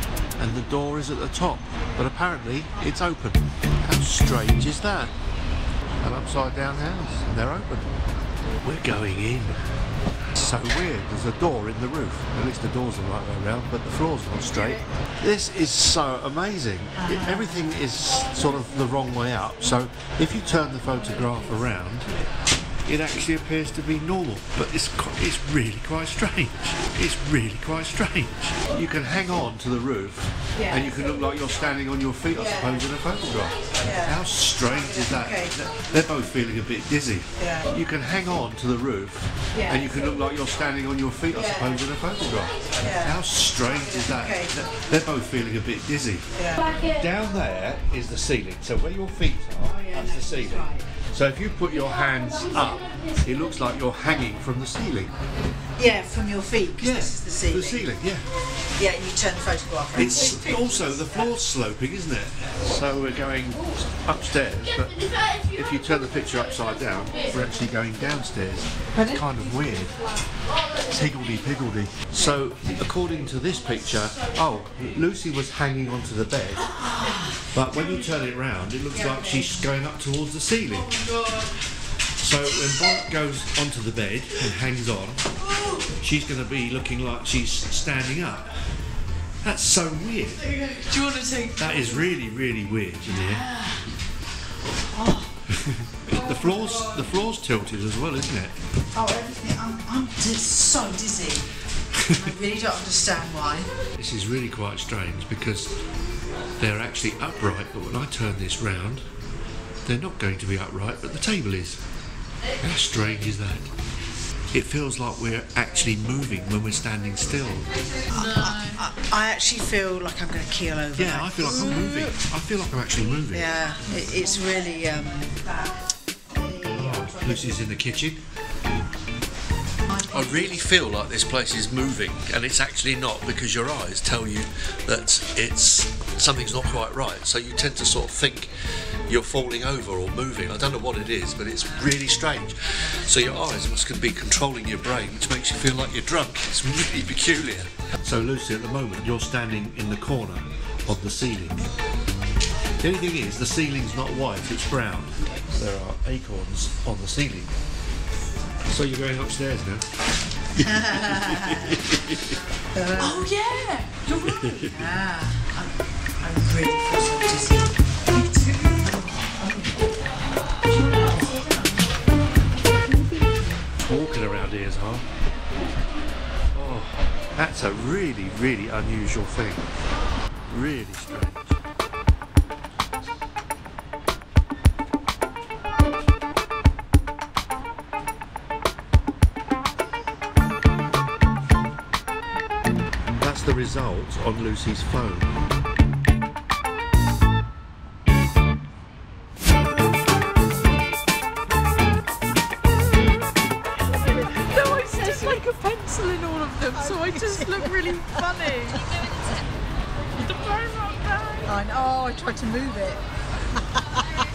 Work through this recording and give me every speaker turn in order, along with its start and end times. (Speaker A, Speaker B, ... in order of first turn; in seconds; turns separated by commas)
Speaker A: 0.4-5.1, Speaker A: 6.0-7.9, Speaker A: 8.6-9.6, Speaker A: 10.3-22.1, Speaker A: 22.9-55.1, Speaker B: 33.8-35.5, Speaker B: 37.4-37.7, Speaker B: 42.8-43.2, Speaker B: 43.7-44.5, Speaker B: 46.4-46.7, Speaker B: 49.6-50.9, Speaker B: 55.8-57.9, Speaker A: 56.8-58.3, Speaker B: 58.8-61.1, Speaker A: 60.0-70.0, Speaker A: 70.7-76.7, Speaker B: 76.8-77.3, Speaker A: 77.4-81.0, Speaker A: 82.2-85.3, Speaker A: 85.9-88.5, Speaker A: 89.4-90.6, Speaker B: 90.6-91.6, Speaker C: 91.0-91.4, Speaker A: 91.5-93.6, Speaker B: 94.9-95.3, Speaker A: 95.5-98.6, Speaker B: 98.9-101.5, Speaker A: 101.9-102.3, Speaker B: 102.1-103.7, Speaker A: 103.9-105.7, Speaker A: 106.6-109.0, Speaker A: 109.8-111.8, Speaker A: 112.6-113.7, Speaker A: 114.5-117.7, Speaker B: 118.1-122.0, Speaker A: 121.0-123.5, Speaker B: 123.3-125.6, Speaker B: 126.3-127.4, Speaker A: 126.6-128.2, Speaker B: 130.0-130.4, Speaker A: 130.0-138.5, Speaker A: 139.1-151.7, Speaker A: 152.8-157.5, Speaker A: 158.7-159.8, Speaker A: 160.5-162.4, Speaker B: 160.6-161.8, Speaker B: 162.7-163.3, Speaker C: 163.0-164.8, Speaker A: 164.2-164.7, Speaker B: 164.6-169.6, Speaker A: 173.8-175.1, Speaker A: 176.5-179.7, Speaker A: 180.5-181.6, Speaker A: 193.2-195.4, Speaker C: 204.0-209.0, Speaker B: 206.8-208.8, Speaker C: 210.2-211.5, Speaker B: 211.5-213.0